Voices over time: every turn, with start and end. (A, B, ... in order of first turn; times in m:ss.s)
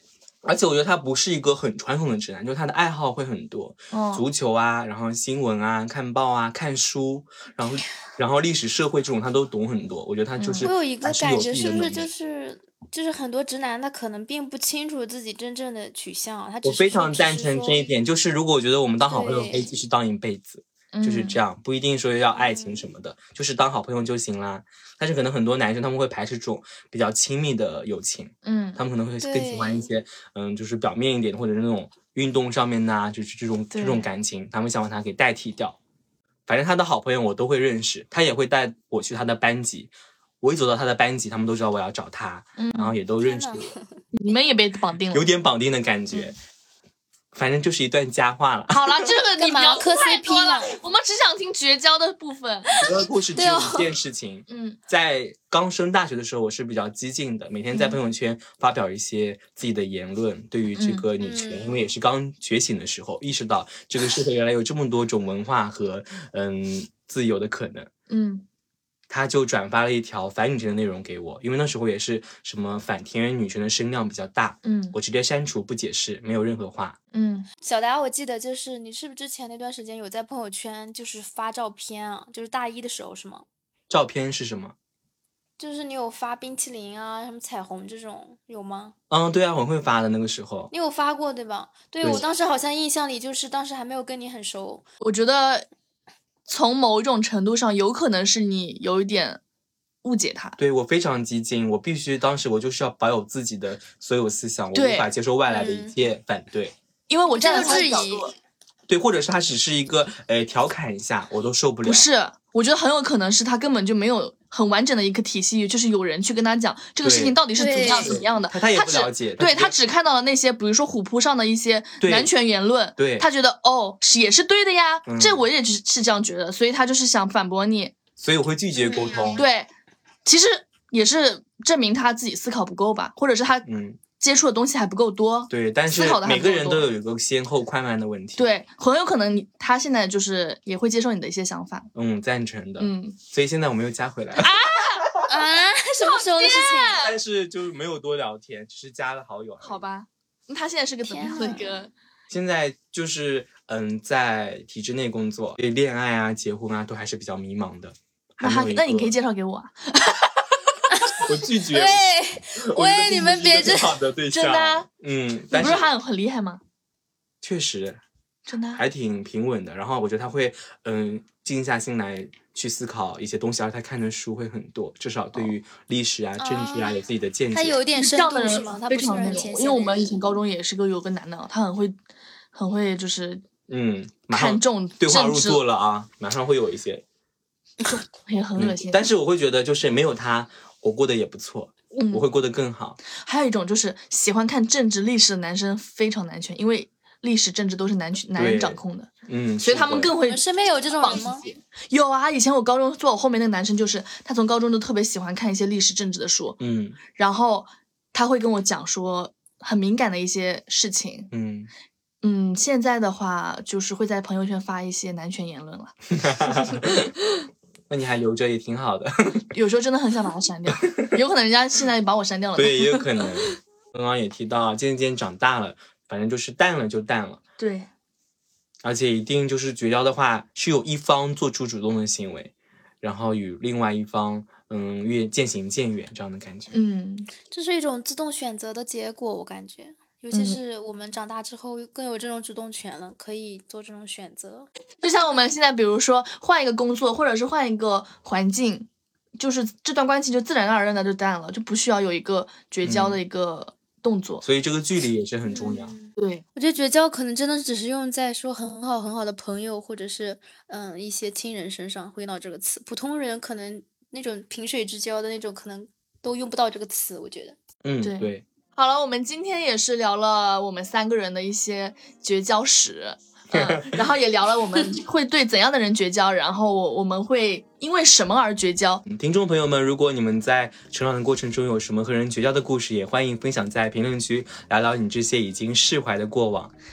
0:00.4-0:12.1 A
0:03.9-0:04.2 B
0:10.4-0:10.7 B
0:10.6-0:17.9 C
0:16.6-0:35.8 A
0:19.1-0:19.7 C
0:20.9-0:21.4 B
0:22.4-0:22.9 C
0:28.4-0:28.8 B
0:29.2-0:29.9 C
0:33.7-0:34.1 B
0:36.5-0:43.7 A
0:42.6-0:42.9 B
0:43.2-0:43.8 C
0:44.1-0:45.3 B
0:45.1-0:46.4 A
0:47.3-0:49.1 A
0:48.7-0:52.8 B
0:49.4-0:50.8 C
0:52.8-1:07.9 A
0:52.8-0:53.9 C
0:54.5-0:54.8 B
0:57.7-0:58.0 B
1:00.8-1:01.1 B
1:01.2-1:01.7 C
1:08.1-1:08.4 B
1:09.1-1:17.0 A
1:14.6-1:15.0 B
1:17.1-1:17.5 B
1:17.6-1:23.5 C
1:23.9-1:24.8 A
1:25.6-1:29.0 C
1:29.1-1:30.7 A
1:30.7-1:34.9 C
1:35.0-1:35.7 B
1:36.5-1:39.4 B
1:40.0-1:40.6 B
1:40.6-1:46.8 A
1:44.7-1:45.1 B
1:45.5-1:46.0 C
1:47.1-1:48.3 B
1:47.3-1:48.3 C
1:48.9-1:52.1 A
1:51.8-2:08.0 B
1:57.0-1:59.8 A
1:57.6-1:58.2 C
2:02.0-2:02.3 A
2:03.0-2:03.3 A
2:05.1-2:05.5 A
2:08.2-2:09.4 A
2:08.8-2:09.4 C
2:09.4-2:09.7 B
2:10.2-2:13.7 B
2:13.7-2:14.0 A
2:14.2-2:16.9 B
2:15.5-2:18.5 A
2:18.4-2:21.9 B
2:21.9-2:24.5 A
2:22.8-2:23.2 B
2:24.4-2:25.2 B
2:25.2-2:27.1 C
2:26.0-2:27.1 B
2:27.0-2:29.8 A
2:29.6-2:31.9 B
2:31.0-2:31.8 C
2:32.3-2:39.2 A
2:38.4-2:40.4 B
2:40.9-2:44.0 C
2:41.1-2:45.9 A
2:44.3-2:44.9 B
2:45.5-2:46.6 B
2:47.4-2:48.0 A
2:48.5-2:48.8 B
2:48.8-2:57.8 A
2:56.4-2:57.0 C
2:57.5-3:00.2 C
2:58.0-3:02.0 B
3:02.5-3:03.4 B
3:03.7-3:07.0 A
3:04.3-3:05.6 B
3:07.9-3:09.0 B
3:08.6-3:13.0 A
3:12.0-3:12.2 B
3:13.2-3:19.1 B
3:18.4-3:20.1 A
3:19.6-3:20.4 B
3:20.2-3:21.4 C
3:21.0-3:26.6 B
3:26.6-3:27.0 A
3:27.2-3:31.3 B
3:31.3-3:31.7 A
3:32.2-3:37.0 B
3:36.1-3:37.1 A
3:37.9-3:39.5 A
3:39.5-3:43.1 B
3:42.6-3:47.4 A
3:47.6-3:47.9 B
3:48.8-3:56.8 A
3:56.7-3:57.3 B
3:57.5-4:04.7 C
4:00.3-4:00.6 B
4:05.0-4:14.4 B
4:12.8-4:13.2 A
4:14.4-4:15.9 A
4:15.5-4:27.6 C
4:16.2-4:16.4 B
4:27.8-4:28.4 A
4:28.0-4:39.0 B
4:33.5-4:34.0 A
4:39.1-4:46.7 A